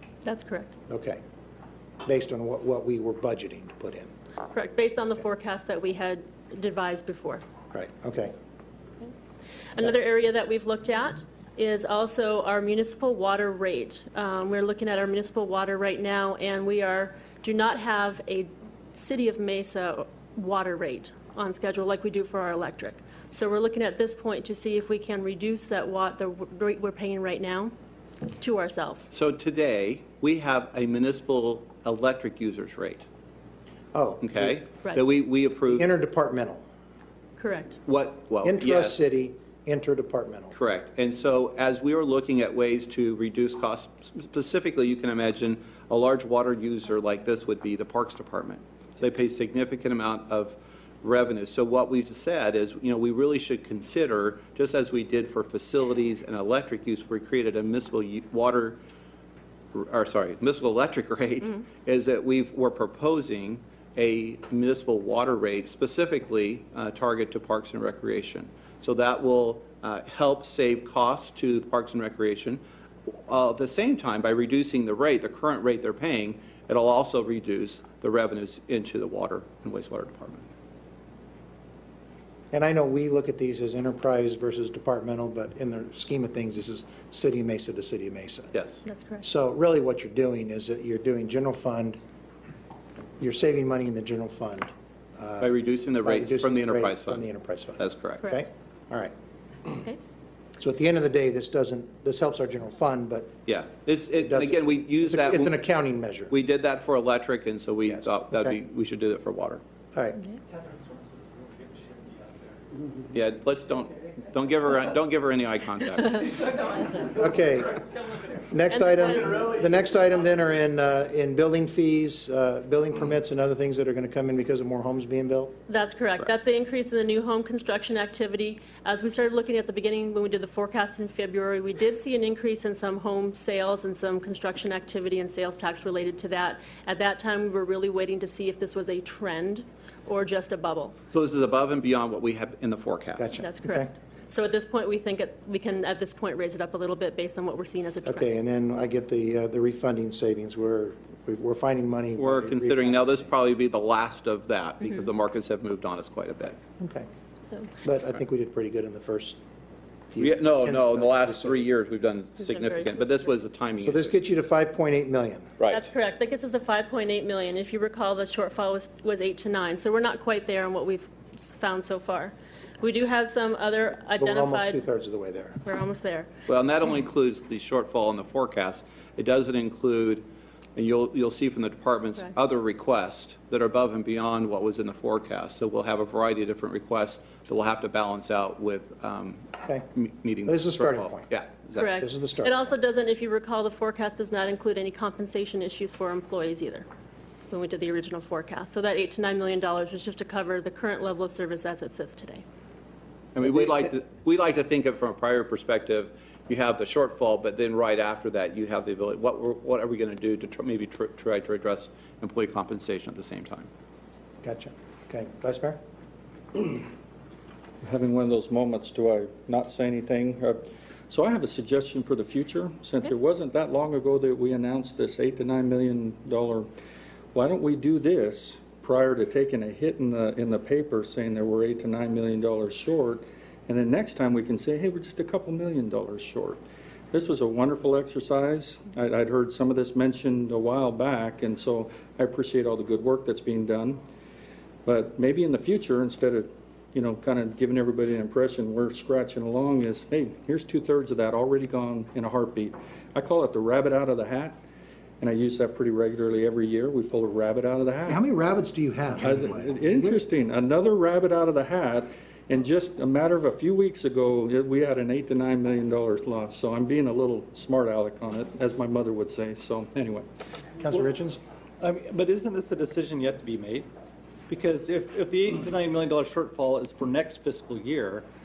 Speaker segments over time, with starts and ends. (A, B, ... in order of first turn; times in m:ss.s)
0:00.2-0:00.7 A
0:00.9-0:01.2 B
0:02.0-0:04.1 B
0:04.5-0:07.4 A
0:07.7-0:08.3 B
0:09.8-0:27.7 A
0:28.4-0:29.1 A
0:29.1-0:33.0 C
0:33.9-0:34.6 B
0:34.2-0:35.9 C
0:35.7-0:36.6 B
0:37.4-0:37.8 A
0:37.8-0:39.0 C
0:38.4-0:40.5 B
0:40.5-0:58.8 C
0:59.7-1:12.6 C
1:13.3-1:20.4 C
1:22.5-1:28.5 B
1:28.5-1:28.8 C
1:28.8-1:29.2 A
1:29.2-1:32.0 B
1:33.2-1:35.5 B
1:35.4-1:38.2 C
1:36.0-1:39.1 B
1:40.6-1:43.3 B
1:43.4-1:45.6 C
1:44.2-1:46.3 B
1:46.3-1:49.6 C
1:47.8-1:48.6 B
1:49.9-1:50.2 B
1:53.1-1:56.3 C
1:57.1-1:57.8 B
1:58.4-2:05.5 B
1:58.7-1:59.3 A
2:05.7-2:21.0 A
2:21.1-2:23.3 C
2:23.2-2:23.9 B
2:23.4-2:28.3 A
2:28.0-2:33.2 B
2:32.2-2:36.6 C
2:36.8-2:37.1 B
2:37.8-2:39.4 B
2:40.1-2:41.6 B
2:40.2-2:44.1 C
2:42.4-2:43.0 A
2:43.8-2:45.5 B
2:45.6-2:45.9 C
2:45.7-2:54.8 A
2:54.2-2:55.6 B
2:55.6-2:56.3 A
2:56.5-3:11.9 C
3:10.4-3:11.3 B
3:11.7-3:16.9 A
3:12.0-3:12.5 B
3:17.5-3:22.4 A
3:23.3-3:33.7 C
3:34.4-3:35.8 B
3:37.8-3:46.7 D
3:47.3-3:56.6 D
3:57.1-4:04.0 D
4:04.8-4:14.6 D
4:15.2-4:18.2 D
4:18.1-4:20.2 B
4:19.2-4:30.2 D
4:30.8-4:31.4 B
4:31.8-4:33.9 E
4:34.5-4:38.2 E